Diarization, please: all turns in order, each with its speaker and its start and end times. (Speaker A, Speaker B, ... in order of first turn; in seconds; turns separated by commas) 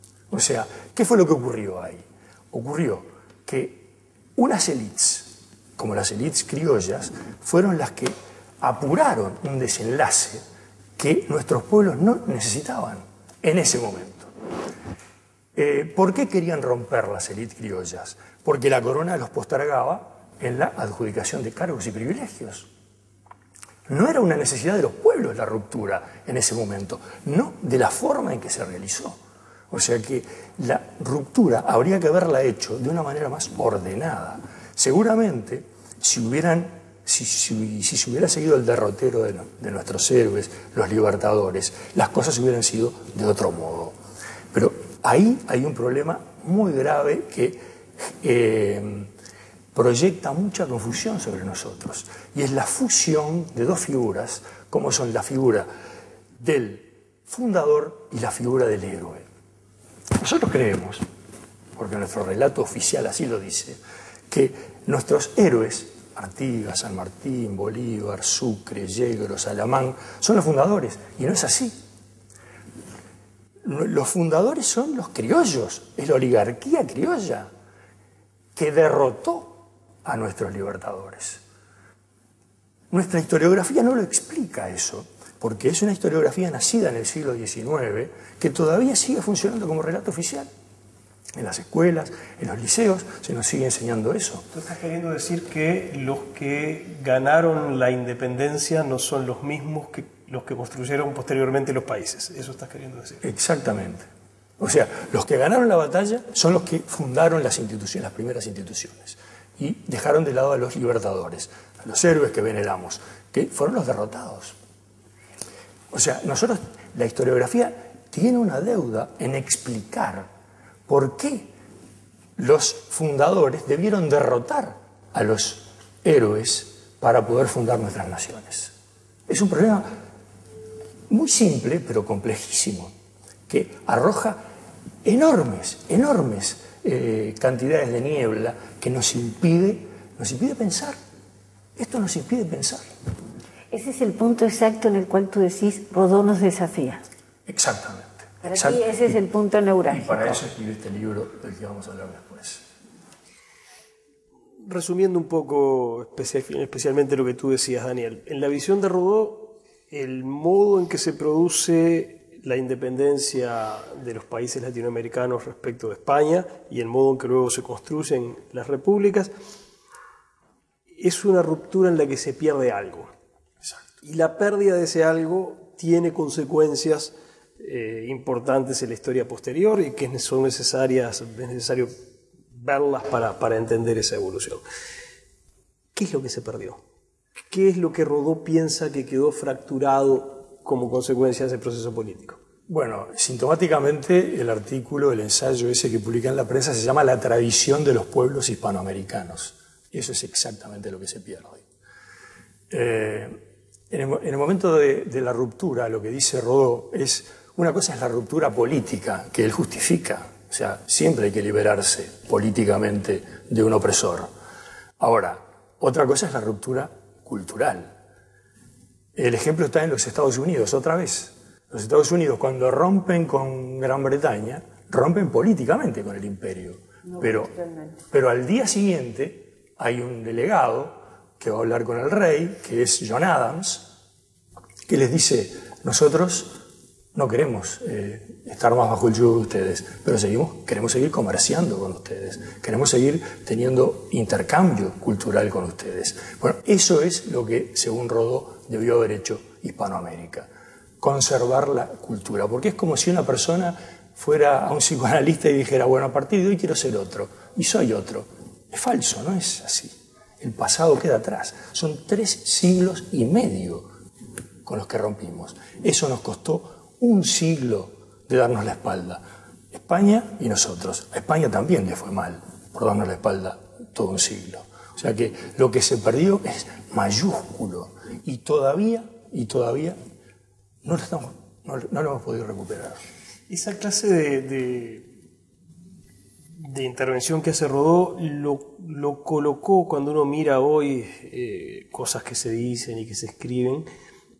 Speaker A: 0.3-10.4, Speaker A: 11.0-14.3, Speaker A: 15.6-22.7, Speaker A: 23.9-44.0, Speaker A: 44.5-49.1, Speaker A: 49.7-55.7, Speaker A: 56.4-59.2, Speaker A: 60.2-61.0, Speaker A: 61.8-63.8, Speaker A: 64.3-71.7, Speaker A: 73.6-77.5, Speaker A: 78.5-81.4, Speaker A: 82.9-90.5, Speaker A: 91.3-94.5, Speaker B: 94.5-103.2, Speaker A: 103.2-104.1, Speaker A: 104.6-114.5, Speaker A: 115.9-120.3, Speaker A: 120.9-121.5, Speaker A: 122.4-128.7, Speaker A: 129.3-129.9, Speaker A: 131.1-132.9, Speaker A: 133.5-134.4, Speaker A: 135.0-141.0, Speaker A: 141.8-142.9, Speaker C: 143.7-147.0, Speaker A: 147.4-149.2, Speaker C: 148.4-150.4, Speaker A: 149.9-152.6, Speaker B: 154.6-169.3, Speaker B: 170.9-173.1, Speaker B: 174.0-181.9, Speaker B: 182.5-184.6, Speaker B: 185.9-186.8, Speaker B: 187.5-192.4, Speaker A: 192.7-201.6, Speaker A: 202.7-203.4, Speaker A: 203.9-214.3, Speaker A: 215.0-217.9, Speaker A: 219.2-227.5, Speaker C: 227.1-228.0, Speaker A: 228.1-233.9, Speaker A: 234.9-236.6, Speaker A: 237.1-250.5, Speaker A: 251.0-263.9, Speaker A: 264.6-280.0, Speaker A: 280.8-283.0, Speaker B: 283.5-285.1, Speaker B: 286.6-293.8